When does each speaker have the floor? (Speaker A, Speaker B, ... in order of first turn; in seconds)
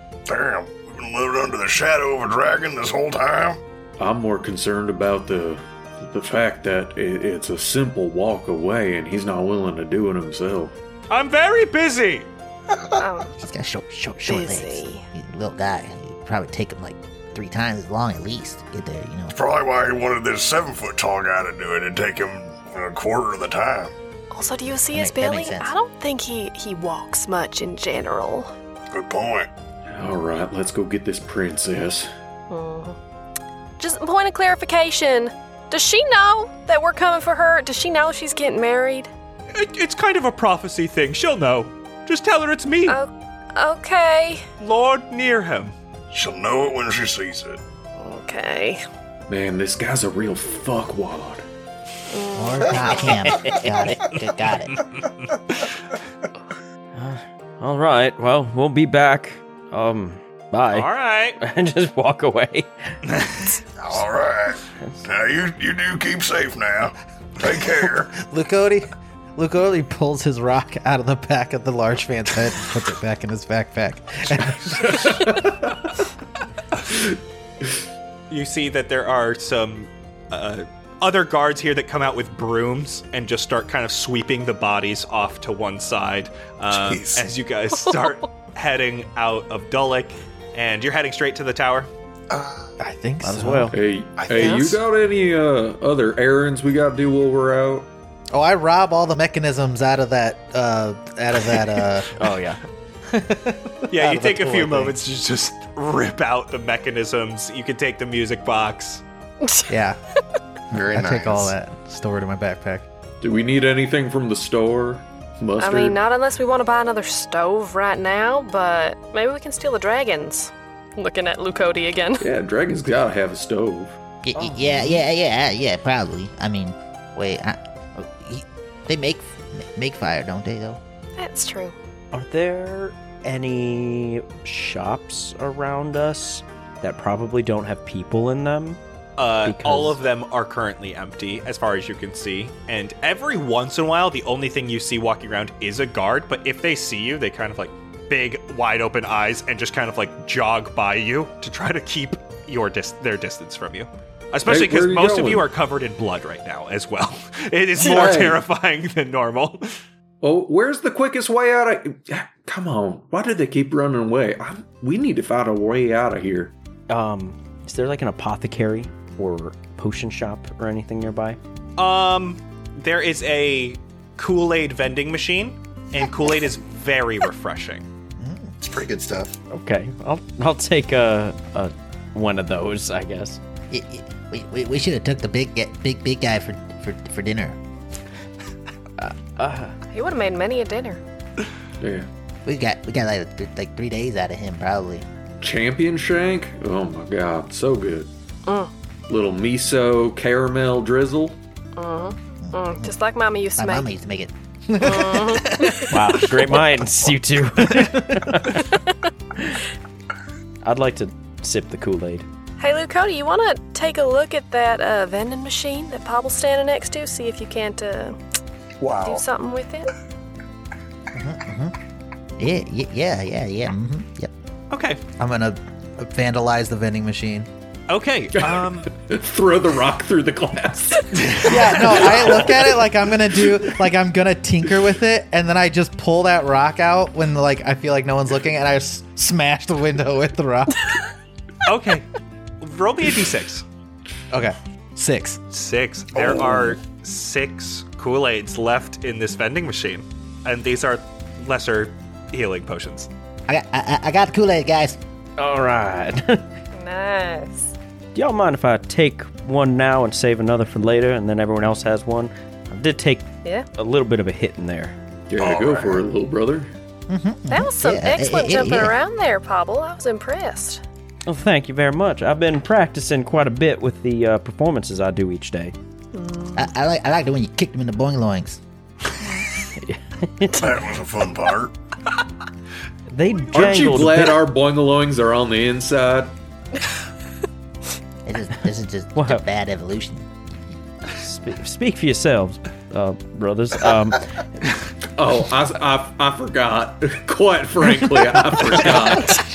Speaker A: 0.3-3.6, 19.3-23.9, 28.9-29.5, 46.1-47.6, 63.8-68.1, 265.4-266.0, 280.5-281.7
Speaker B: 4.0-10.7, 29.9-32.1, 49.3-51.5, 74.5-75.9, 76.8-77.2, 93.7-97.9, 113.2-116.0, 122.2-124.0, 154.4-155.4, 157.8-158.4, 160.2-166.5, 191.8-192.1, 195.4-198.1, 199.1-201.4, 228.4-233.7, 265.3-266.7, 283.5-286.3, 295.1-299.4
Speaker C: 11.1-12.3, 39.5-43.0, 44.6-45.7, 54.8-55.6, 60.7-61.4, 63.1-63.5, 78.3-91.9, 103.9-109.0, 139.2-159.6, 171.8-177.8, 224.7-225.0, 227.9-228.9, 241.6-242.1, 242.6-243.6, 245.5-253.1
Speaker D: 13.0-13.3, 14.2-15.1, 24.3-28.5, 32.5-33.0, 33.8-39.1, 42.9-44.5, 48.0-48.8, 52.1-53.7, 94.4-94.7, 115.6-122.3, 131.2-131.7, 189.9-191.0, 198.4-198.7, 201.8-203.9, 204.8-205.9, 208.6-208.9, 212.6-218.2, 219.0-219.9, 256.7-257.7, 267.5-270.8, 276.1-276.7
Speaker E: 13.4-19.3, 24.9-25.7, 52.3-54.8, 124.2-130.8, 178.2-178.5, 183.7-187.6, 192.4-195.1, 202.4-202.9, 203.6-205.7, 221.1-221.7, 222.4-224.3, 253.5-255.0, 267.1-268.9, 276.6-278.6, 288.2-290.3
Speaker F: 57.0-60.9, 61.4-62.9, 93.2-93.7, 102.2-102.6, 124.4-125.0, 132.1-138.8, 139.4-140.0, 166.9-171.4, 179.5-183.4, 189.0-189.7, 205.9-208.6, 210.6-212.3, 255.4-256.4, 258.1-264.9, 271.3-275.7, 279.8-280.6, 283.1-284.4, 289.1-289.4, 291.2-294.4, 298.7-299.2
Speaker G: 68.1-75.3, 92.8-93.8, 98.3-102.1, 103.1-105.0, 109.7-110.0, 110.8-112.9, 225.2-227.5, 231.4-240.8, 244.3-245.4
Speaker H: 86.7-87.2, 92.3-92.7, 94.2-94.8, 110.7-111.5, 178.6-179.3, 218.8-219.2